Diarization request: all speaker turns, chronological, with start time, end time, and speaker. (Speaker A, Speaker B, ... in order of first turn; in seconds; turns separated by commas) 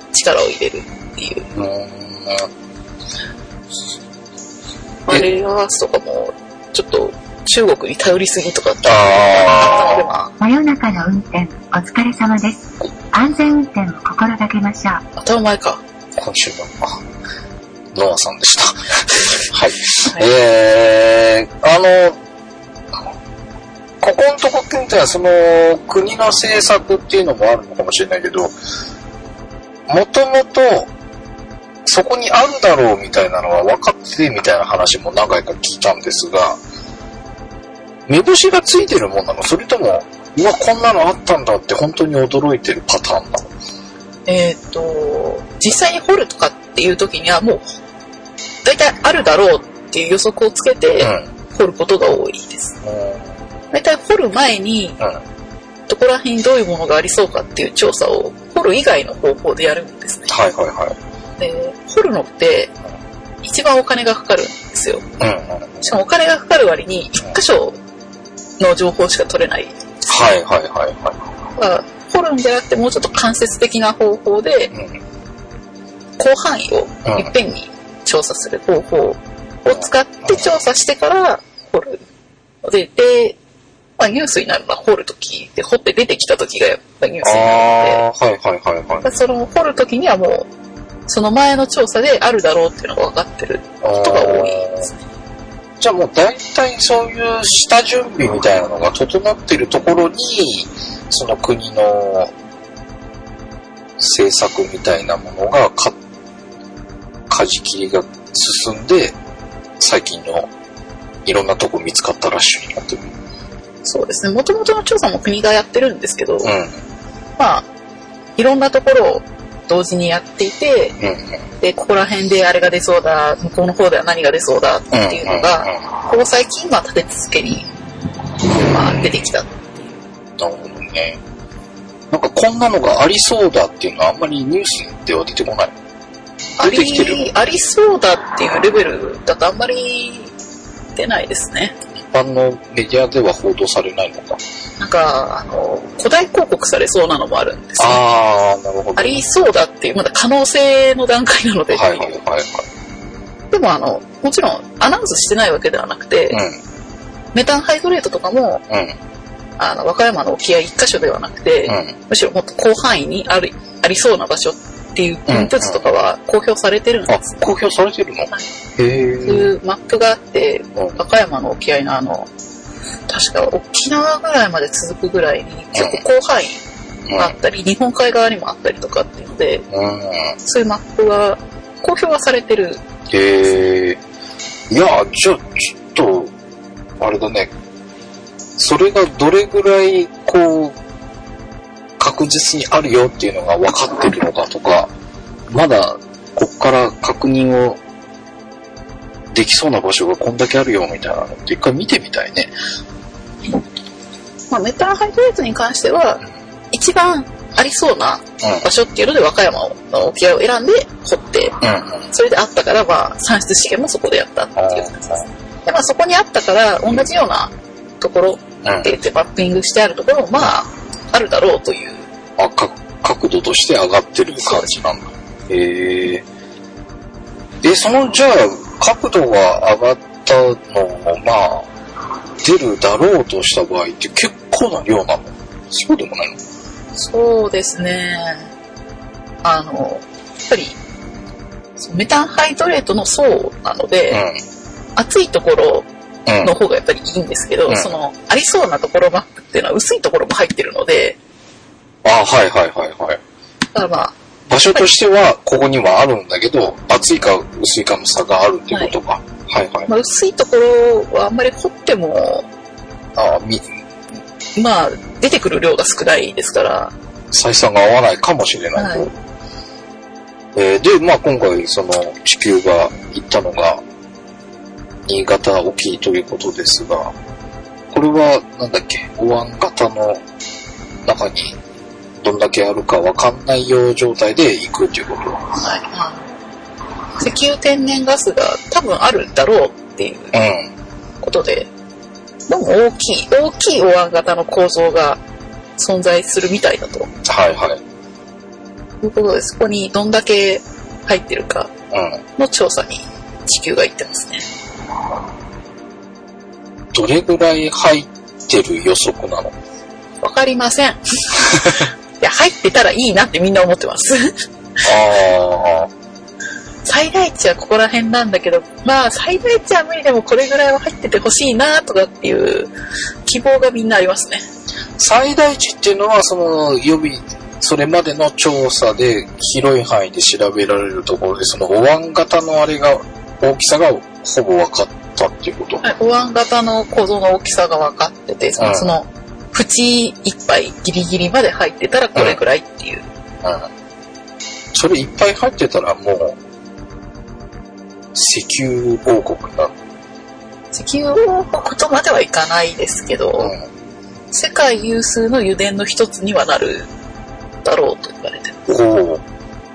Speaker A: 0.1-1.5, Speaker B: 1.5-2.5, Speaker A: 5.1-10.3, Speaker B: 8.8-10.0, Speaker C: 10.4-15.0, Speaker A: 15.2-15.8, Speaker B: 16.2-17.0, Speaker B: 17.9-22.2, Speaker B: 24.0-28.5, Speaker B: 29.9-30.9, Speaker B: 31.8-36.6, Speaker B: 38.1-43.5, Speaker A: 44.3-47.6, Speaker A: 48.6-52.7, Speaker B: 51.0-51.3, Speaker B: 52.8-53.3, Speaker A: 53.7-55.0, Speaker A: 55.9-60.3, Speaker B: 60.3-61.0, Speaker A: 61.4-62.7, Speaker A: 63.4-65.0, Speaker B: 65.2-65.9, Speaker A: 65.8-67.8, Speaker A: 68.6-70.0, Speaker B: 70.1-71.2, Speaker A: 71.5-74.7, Speaker B: 74.7-75.0, Speaker A: 76.2-82.0, Speaker B: 77.0-77.3, Speaker B: 79.8-80.4, Speaker A: 82.6-83.4, Speaker A: 84.0-88.0, Speaker B: 87.2-89.1, Speaker A: 89.0-90.5, Speaker A: 91.1-95.0, Speaker B: 93.8-94.8, Speaker B: 95.8-102.3, Speaker B: 104.0-106.0, Speaker B: 107.3-109.2, Speaker B: 109.8-110.5, Speaker B: 111.2-113.1, Speaker A: 113.8-116.5, Speaker B: 116.4-116.8, Speaker A: 117.4-117.7, Speaker A: 118.4-121.0, Speaker B: 121.0-121.4, Speaker A: 121.6-127.7, Speaker B: 124.9-125.8, Speaker A: 128.5-129.8, Speaker B: 130.4-131.2, Speaker B: 132.1-135.7, Speaker A: 136.6-140.3, Speaker B: 136.6-137.3, Speaker A: 140.9-141.7, Speaker B: 141.9-144.4, Speaker A: 144.8-148.0, Speaker B: 147.8-149.2, Speaker A: 148.9-152.1, Speaker B: 151.7-152.7, Speaker A: 153.5-156.4, Speaker B: 156.3-156.6, Speaker A: 157.3-158.6, Speaker B: 158.7-159.0, Speaker A: 159.6-167.4, Speaker B: 161.7-161.9, Speaker B: 165.3-165.9, Speaker B: 167.1-169.5, Speaker A: 169.2-172.3, Speaker A: 173.1-176.6, Speaker B: 175.7-176.0, Speaker B: 177.1-177.3, Speaker A: 177.1-179.7, Speaker B: 179.7-180.3, Speaker A: 180.4-182.8, Speaker B: 183.1-184.0, Speaker B: 184.7-186.3, Speaker B: 187.0-187.5, Speaker B: 188.6-190.8, Speaker B: 192.0-194.9, Speaker B: 195.5-197.8, Speaker B: 199.3-202.5, Speaker A: 204.5-211.6, Speaker B: 211.6-212.1, Speaker A: 212.1-222.1, Speaker B: 214.6-215.2, Speaker B: 218.6-218.9, Speaker B: 222.4-226.2, Speaker A: 224.4-224.7, Speaker B: 227.6-231.7, Speaker B: 232.4-236.4, Speaker A: 236.9-238.5, Speaker A: 239.4-240.8, Speaker A: 241.8-244.2, Speaker B: 244.1-244.4, Speaker A: 244.9-245.9, Speaker B: 246.2-246.5, Speaker A: 246.4-251.2, Speaker B: 252.0-253.2, Speaker A: 253.7-254.1, Speaker B: 254.5-259.9, Speaker A: 259.9-262.5, Speaker B: 263.1-263.7, Speaker A: 264.6-266.9, Speaker B: 267.3-269.1, Speaker A: 268.8-269.1, Speaker B: 270.5-273.8, Speaker B: 275.1-277.1, Speaker B: 277.9-280.2, Speaker B: 281.0-281.6, Speaker B: 282.2-285.4, Speaker A: 285.6-286.3, Speaker A: 287.2-290.3, Speaker B: 290.3-290.7, Speaker A: 291.2-291.7, Speaker A: 292.5-295.2, Speaker A: 295.8-297.1, Speaker B: 297.2-297.8, Speaker A: 299.0-301.7, Speaker B: 301.9-302.2, Speaker A: 302.4-304.4, Speaker B: 306.9-309.6, Speaker A: 310.2-314.3, Speaker B: 311.6-311.8, Speaker B: 314.8-315.9, Speaker A: 316.8-322.7, Speaker A: 323.2-324.4, Speaker B: 325.0-335.8, Speaker A: 335.8-343.1, Speaker B: 338.6-338.9, Speaker B: 343.4-343.7, Speaker B: 344.7-346.4, Speaker B: 348.1-349.8, Speaker A: 350.7-353.5, Speaker B: 353.4-353.6, Speaker A: 354.3-356.9, Speaker A: 357.6-358.6, Speaker B: 358.7-359.2